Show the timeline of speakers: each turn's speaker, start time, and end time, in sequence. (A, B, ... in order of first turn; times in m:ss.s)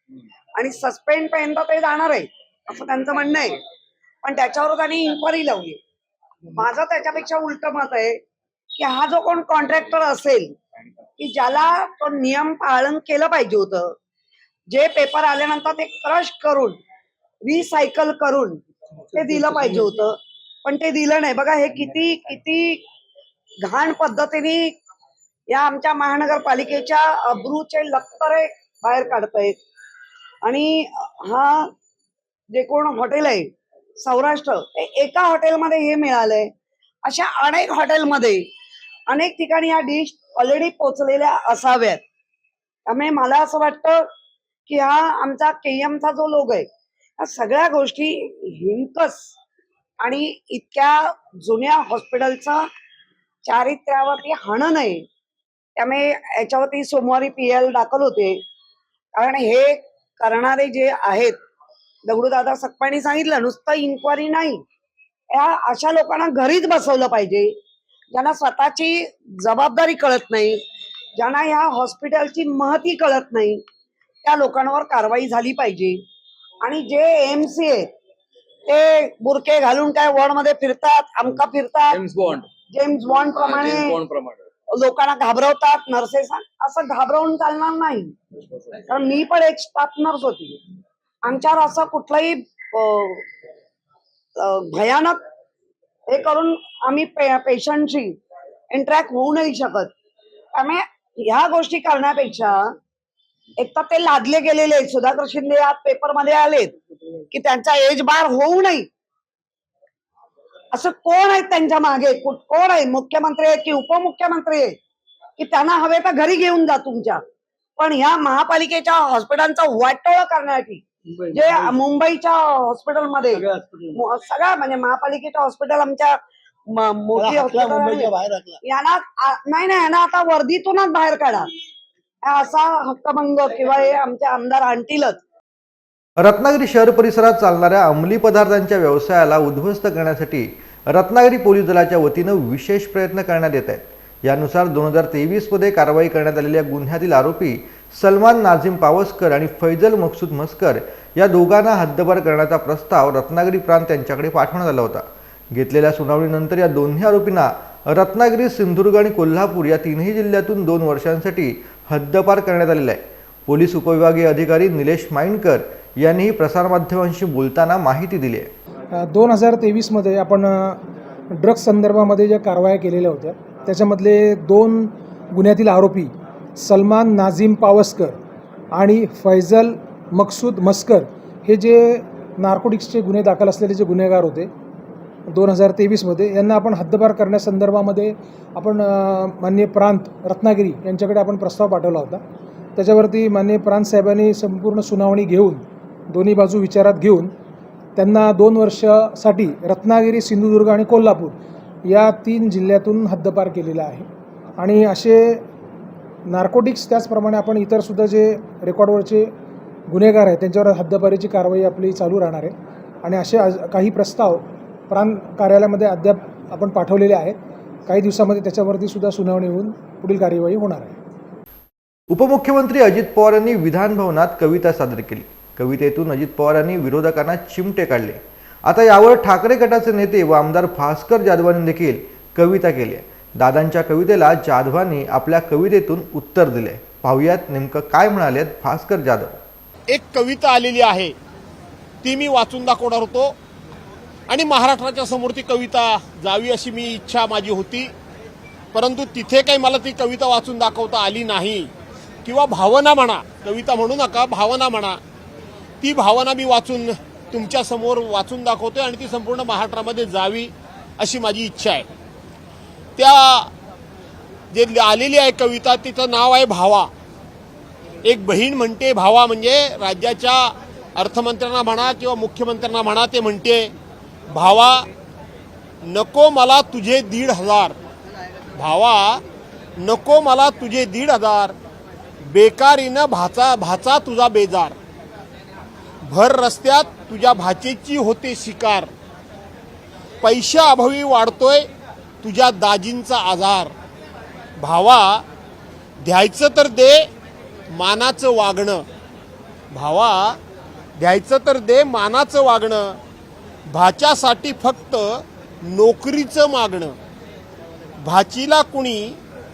0:00.6-0:03.6 A
0:04.2-0:05.8 A
0:06.5-0:08.2 A
0:08.8-0:10.6 A
0:11.2-0:14.0 A
0:14.7-0:16.8 A
0:17.4-0:18.6 A
0:19.1-0:22.8 A
0:23.6-0:24.7 A
0:25.5-0:29.6 A
0:30.4-0:31.7 A
0:32.5-0:36.5 A
0:37.0-0:38.5 A
0:39.1-0:42.0 A
0:42.9-0:44.0 A
0:44.7-0:46.7 A
0:47.2-0:49.3 A
0:50.0-0:52.7 A
0:53.5-0:55.0 A
0:55.8-0:58.4 A
0:59.2-1:01.4 A
1:02.1-1:04.6 A
1:05.3-1:07.5 A
1:08.1-1:10.6 A
1:11.2-1:13.6 A
1:14.2-1:16.0 A
1:16.6-1:17.9 A
1:18.7-1:22.0 A
1:21.9-1:22.5 B
1:22.7-1:24.0 A
1:23.3-1:24.4 B
1:24.7-1:28.2 A
1:28.9-1:30.6 A
1:31.2-1:33.2 A
1:34.4-1:35.2 A
1:36.1-1:38.2 A
1:38.7-1:39.9 A
1:40.5-1:42.8 A
1:43.6-1:46.8 A
1:47.3-1:48.9 A
1:50.7-1:54.8 A
1:55.4-1:57.2 A
1:57.8-2:06.2 A
2:03.4-2:03.9 B
2:06.7-2:11.5 A
2:07.2-2:08.5 B
2:12.3-2:15.2 A
2:16.2-2:48.5 C
2:48.9-2:50.8 D
2:51.3-2:58.2 D
2:58.7-3:04.5 D
3:05.3-3:12.2 D
3:12.8-3:17.3 D
3:18.0-3:25.4 D
3:26.3-3:29.3 D
3:29.9-3:32.5 D
3:33.0-3:41.0 D
3:42.1-3:59.4 C
3:59.9-4:01.1 E
4:02.0-4:03.4 E
4:04.3-4:07.9 E
4:08.7-4:11.7 E
4:12.2-4:15.0 E
4:15.8-4:21.9 E
4:23.0-4:23.5 E
4:24.5-4:26.9 E
4:28.0-4:33.7 E
4:34.3-4:34.9 E
4:35.8-4:37.8 E
4:38.6-4:39.2 E
4:39.8-4:41.6 E
4:42.3-4:44.8 E
4:46.0-4:48.9 E
4:50.2-4:51.7 E
4:52.2-4:53.7 E
4:54.6-4:55.2 E
4:56.0-4:57.1 E
4:57.7-4:58.8 E
4:59.7-5:00.4 E
5:01.0-5:03.0 E
5:03.7-5:07.0 E
5:08.0-5:09.2 E